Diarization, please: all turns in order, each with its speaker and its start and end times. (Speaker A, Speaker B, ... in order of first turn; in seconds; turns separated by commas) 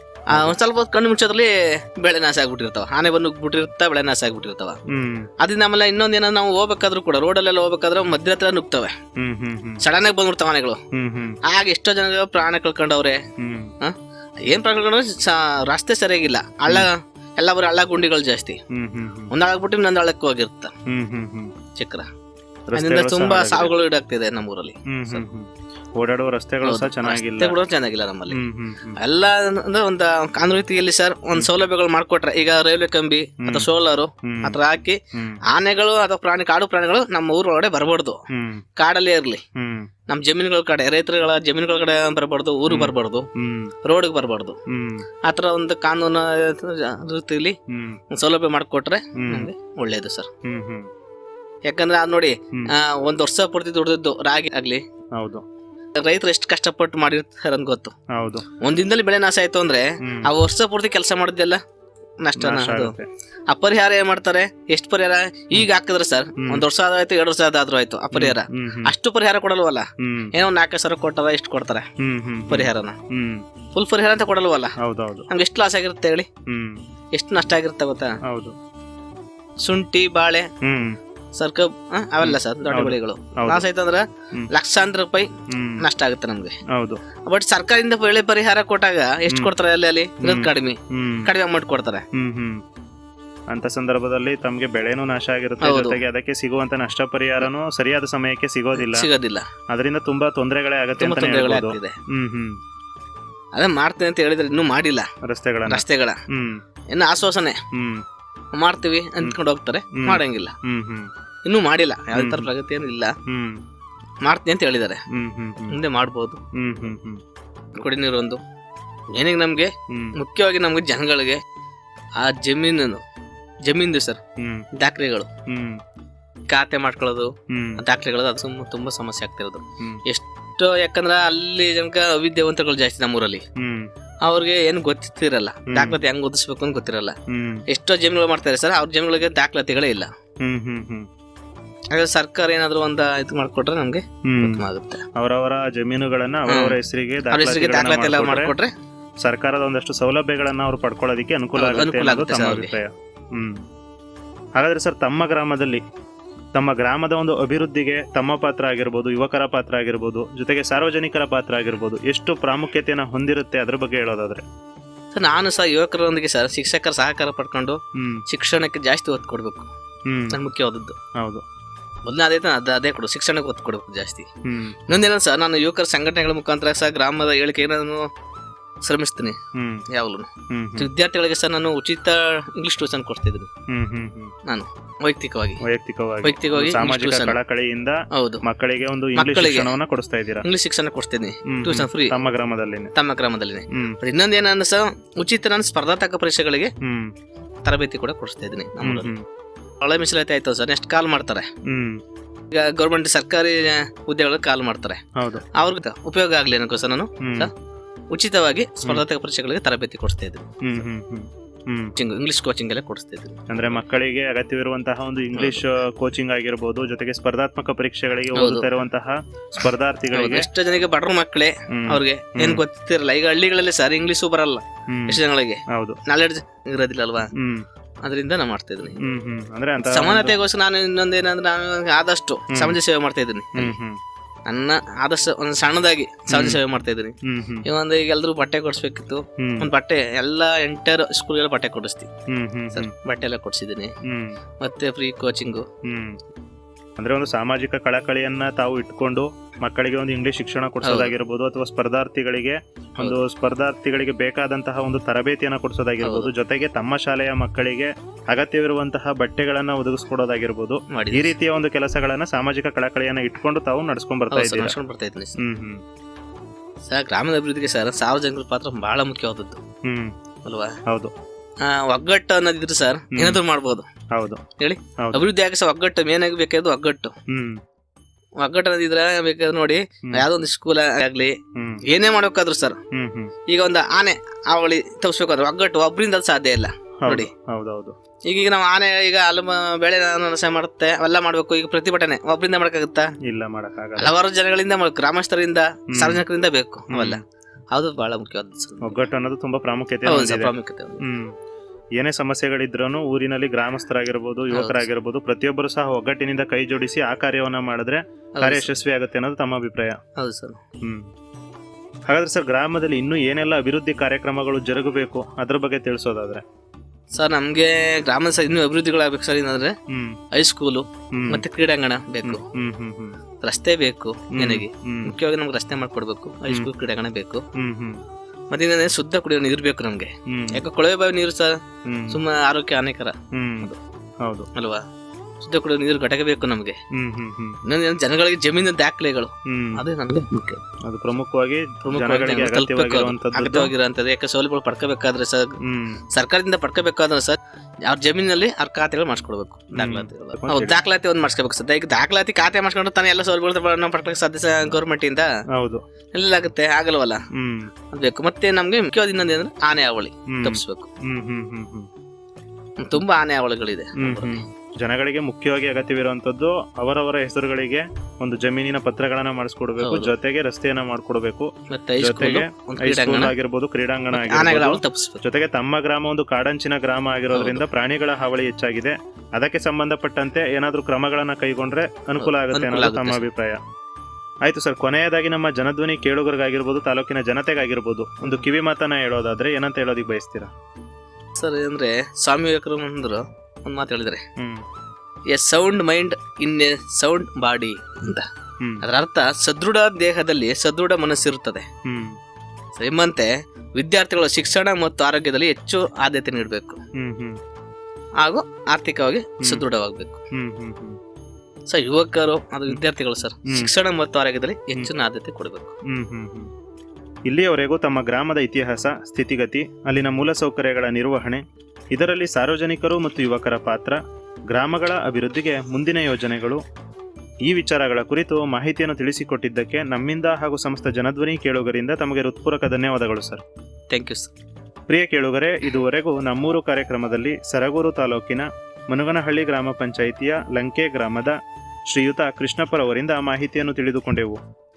Speaker A: 0.3-4.8, Speaker B: 4.9-5.3, Speaker A: 5.4-9.0, Speaker B: 9.2-9.8, Speaker A: 9.8-10.8, Speaker B: 10.9-11.4, Speaker A: 11.4-13.2, Speaker B: 13.4-13.7, Speaker A: 13.8-18.6, Speaker B: 18.7-19.3, Speaker A: 19.3-20.7, Speaker B: 20.9-21.5, Speaker A: 21.8-22.1, Speaker B: 22.7-23.7, Speaker A: 22.8-25.2, Speaker B: 24.9-27.6, Speaker A: 26.6-28.4, Speaker B: 28.3-29.0, Speaker A: 29.0-35.0, Speaker B: 33.4-33.7, Speaker B: 34.2-34.6, Speaker B: 35.1-35.4, Speaker A: 35.5-38.2, Speaker B: 38.3-38.6, Speaker A: 38.8-39.4, Speaker B: 39.5-39.9, Speaker A: 40.1-43.3, Speaker B: 42.7-43.7, Speaker A: 43.8-44.6, Speaker B: 44.7-45.0, Speaker A: 45.2-47.6, Speaker B: 47.7-48.0, Speaker A: 48.1-50.3, Speaker B: 49.2-49.5, Speaker B: 50.5-50.9, Speaker A: 51.7-54.8, Speaker B: 55.2-55.4, Speaker A: 56.0-57.9, Speaker B: 58.1-58.5, Speaker A: 58.6-61.6, Speaker B: 60.0-60.3, Speaker A: 62.2-63.0, Speaker B: 62.4-63.1, Speaker A: 63.5-71.9, Speaker B: 66.4-66.7, Speaker B: 68.1-68.9, Speaker B: 70.0-70.3, Speaker B: 72.0-73.5, Speaker A: 72.5-73.0, Speaker A: 73.7-74.8, Speaker B: 74.8-75.3, Speaker A: 75.3-76.3, Speaker B: 76.5-76.8, Speaker A: 77.1-78.2, Speaker B: 78.3-78.5, Speaker A: 79.6-80.5, Speaker B: 80.6-81.0, Speaker A: 81.3-85.3, Speaker B: 82.2-83.7, Speaker B: 85.5-85.8, Speaker A: 85.8-86.6, Speaker B: 86.7-87.0, Speaker A: 87.2-92.0, Speaker B: 90.2-91.3, Speaker B: 92.1-92.6, Speaker B: 93.5-99.1, Speaker A: 95.6-96.0, Speaker A: 98.8-99.5, Speaker B: 99.7-102.6, Speaker A: 101.0-102.0, Speaker A: 103.5-105.1, Speaker B: 105.2-106.6, Speaker A: 105.7-106.2, Speaker A: 106.9-107.6, Speaker B: 107.7-108.0, Speaker A: 108.6-110.5, Speaker B: 110.0-111.1, Speaker A: 111.5-113.1, Speaker B: 112.2-112.5, Speaker B: 113.3-113.6, Speaker A: 114.2-115.0, Speaker B: 115.1-115.8, Speaker A: 115.7-116.4, Speaker B: 116.5-117.2, Speaker A: 117.8-118.4, Speaker A: 119.1-121.4, Speaker B: 119.9-120.2, Speaker A: 122.2-123.0, Speaker A: 123.7-124.2, Speaker B: 124.4-124.7, Speaker A: 124.8-125.3, Speaker B: 125.5-125.8, Speaker A: 126.5-133.4, Speaker B: 127.5-127.8, Speaker B: 133.6-133.9, Speaker A: 134.2-137.2, Speaker B: 135.7-136.0, Speaker B: 137.3-137.6, Speaker A: 137.7-140.1, Speaker B: 140.4-141.1, Speaker A: 141.9-145.0, Speaker B: 144.2-144.6, Speaker B: 145.2-148.6, Speaker A: 146.5-146.8, Speaker A: 147.3-148.7, Speaker B: 149.2-153.6, Speaker A: 151.6-152.8, Speaker B: 154.6-155.8, Speaker B: 156.5-164.4, Speaker A: 165.1-169.7, Speaker B: 167.9-168.2, Speaker B: 170.1-170.4, Speaker A: 170.3-171.0, Speaker B: 171.2-171.4, Speaker A: 172.1-174.3, Speaker B: 174.4-174.8, Speaker A: 174.9-178.1, Speaker A: 178.8-179.4, Speaker B: 179.5-179.8, Speaker A: 179.9-183.5, Speaker B: 180.5-180.9, Speaker B: 183.7-184.3, Speaker A: 184.5-185.6, Speaker B: 185.6-190.5, Speaker A: 186.2-187.4, Speaker A: 188.1-188.4, Speaker A: 189.2-189.8, Speaker A: 190.4-192.2, Speaker B: 191.5-192.9, Speaker A: 192.9-196.7, Speaker B: 193.7-194.0, Speaker B: 196.8-197.1, Speaker A: 197.7-199.1, Speaker B: 198.8-199.2, Speaker A: 199.8-201.5, Speaker B: 201.7-202.0, Speaker A: 202.5-205.0, Speaker B: 205.2-205.4, Speaker A: 205.6-207.5, Speaker B: 207.2-207.5, Speaker A: 208.1-210.6, Speaker B: 210.6-211.9, Speaker A: 212.0-213.8, Speaker B: 213.5-220.5, Speaker A: 215.3-215.6, Speaker A: 218.3-218.7, Speaker A: 220.1-227.3, Speaker B: 221.7-222.6, Speaker B: 224.9-226.0, Speaker B: 227.4-227.7, Speaker A: 228.0-229.0, Speaker B: 229.0-230.4, Speaker A: 229.8-233.8, Speaker B: 232.5-232.8, Speaker B: 233.6-234.0, Speaker A: 234.5-242.1, Speaker B: 236.3-236.6, Speaker B: 237.2-237.7, Speaker B: 239.4-239.7, Speaker B: 242.3-242.9, Speaker A: 242.7-243.9, Speaker B: 244.1-244.4, Speaker A: 244.6-245.7, Speaker B: 245.8-246.2, Speaker B: 247.0-264.8, Speaker A: 250.8-251.2, Speaker A: 256.0-256.3, Speaker A: 260.9-261.3, Speaker A: 264.3-265.4, Speaker B: 265.4-265.8, Speaker A: 266.9-269.6, Speaker B: 269.9-270.1, Speaker A: 270.4-270.8, Speaker B: 270.9-271.1, Speaker A: 271.6-273.9, Speaker B: 273.1-273.4, Speaker B: 274.1-274.4, Speaker A: 274.6-277.1, Speaker B: 275.0-275.3, Speaker B: 277.3-277.6, Speaker A: 278.4-282.8, Speaker B: 281.6-281.8, Speaker B: 282.9-283.3, Speaker A: 283.5-287.3, Speaker B: 287.0-287.9, Speaker A: 288.3-293.1, Speaker B: 293.2-294.1, Speaker A: 294.0-297.2, Speaker B: 295.9-296.2, Speaker B: 296.9-297.2, Speaker A: 297.7-299.1, Speaker B: 298.8-301.3, Speaker A: 300.1-301.0, Speaker B: 302.0-310.0, Speaker A: 304.5-304.9, Speaker A: 308.4-308.8, Speaker A: 310.2-310.6, Speaker B: 310.8-311.1, Speaker B: 312.1-316.4, Speaker A: 317.1-319.8, Speaker B: 319.9-320.2, Speaker A: 320.3-322.4, Speaker B: 321.1-321.4, Speaker B: 322.2-323.2, Speaker A: 323.4-327.4, Speaker B: 324.4-325.2, Speaker B: 327.6-328.0, Speaker A: 328.5-331.6, Speaker B: 330.3-330.6, Speaker B: 331.9-332.2, Speaker A: 332.1-333.8, Speaker B: 333.3-333.7, Speaker B: 334.2-334.5, Speaker A: 334.5-334.9, Speaker A: 335.4-336.8, Speaker B: 336.9-337.6, Speaker A: 337.7-340.6, Speaker B: 339.5-339.8, Speaker B: 340.9-343.7, Speaker A: 341.8-345.6, Speaker B: 345.6-346.0, Speaker A: 346.1-355.3, Speaker B: 349.8-350.8, Speaker B: 355.6-355.8, Speaker A: 356.1-357.2, Speaker B: 357.3-357.7, Speaker A: 357.9-360.9, Speaker B: 360.3-361.9, Speaker A: 362.8-364.4, Speaker B: 364.0-383.6, Speaker A: 369.8-370.1, Speaker A: 371.7-373.3, Speaker A: 374.1-375.2, Speaker A: 377.3-377.6, Speaker A: 382.2-383.2, Speaker B: 384.4-390.5, Speaker A: 391.4-394.2, Speaker B: 394.4-394.6, Speaker A: 395.3-398.3, Speaker A: 398.8-401.7, Speaker B: 401.9-402.2, Speaker A: 402.8-406.8, Speaker B: 407.0-407.4, Speaker A: 408.2-410.2, Speaker B: 410.3-411.0, Speaker A: 411.7-415.8, Speaker B: 415.9-416.5, Speaker B: 417.3-424.0, Speaker B: 424.5-426.6, Speaker B: 427.4-433.4, Speaker A: 433.9-434.3, Speaker B: 434.9-441.4, Speaker B: 441.9-444.4